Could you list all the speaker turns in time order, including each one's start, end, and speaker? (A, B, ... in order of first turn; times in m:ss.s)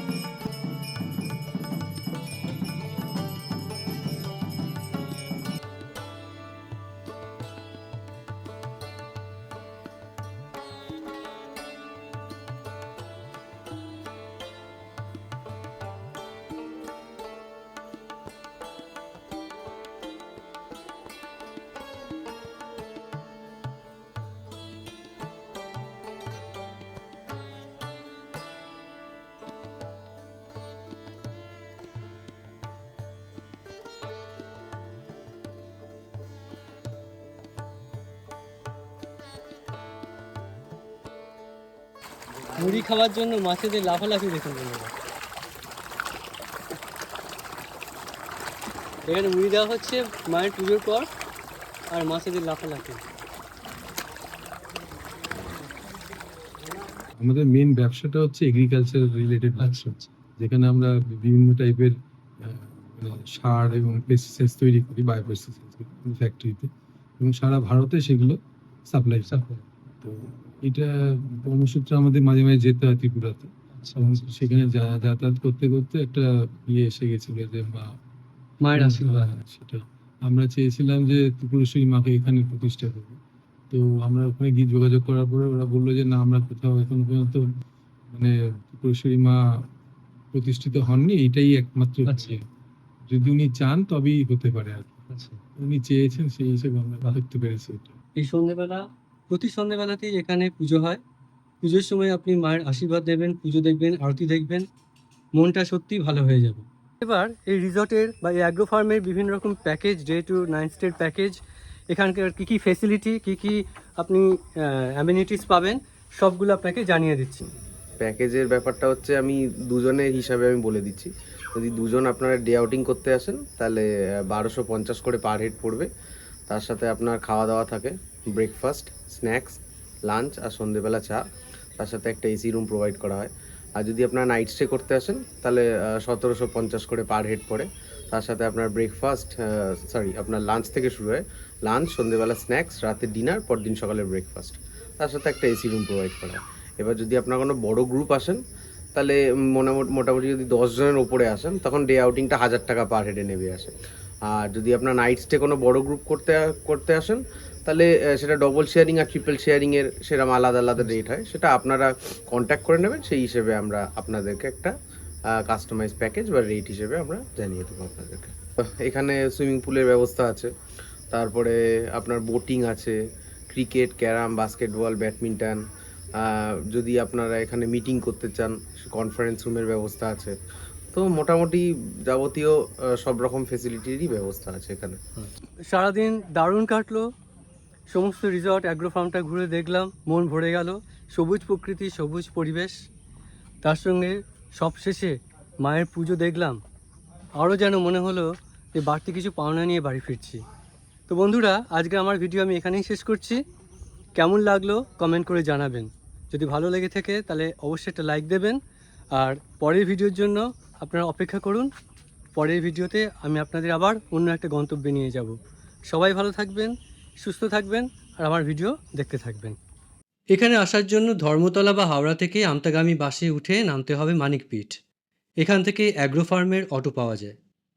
0:42.5-0:44.9 A
0:49.0-0:51.1 A
0:51.9-0:53.0 A
0:57.2-1:09.4 B
0:59.6-1:00.1 A
1:09.3-1:09.6 A
1:09.9-1:17.9 B
1:13.7-1:14.3 A
1:18.6-1:19.3 A
1:18.7-1:23.2 B
1:23.7-1:27.6 B
1:28.1-1:29.4 B
1:30.3-1:32.4 B
1:32.0-1:32.4 A
1:33.1-1:38.0 B
1:35.1-1:35.4 A
1:38.1-1:41.0 A
1:41.6-1:44.7 A
1:45.3-1:51.4 A
1:51.9-1:57.5 A
1:58.0-2:05.9 C
2:06.5-2:28.4 C
2:29.0-2:33.7 C
2:34.2-2:44.7 C
2:45.3-2:50.5 C
2:51.1-2:53.0 C
2:53.5-3:00.4 C
3:00.9-3:05.0 C
3:05.2-3:07.1 A
3:07.9-3:12.8 A
3:13.6-3:16.6 A
3:17.4-3:20.4 A
3:21.1-3:23.4 A
3:24.1-3:28.6 A
3:29.1-3:31.7 A
3:32.3-3:35.4 A
3:35.9-3:39.6 A
3:40.3-3:44.8 A
3:45.4-3:47.4 A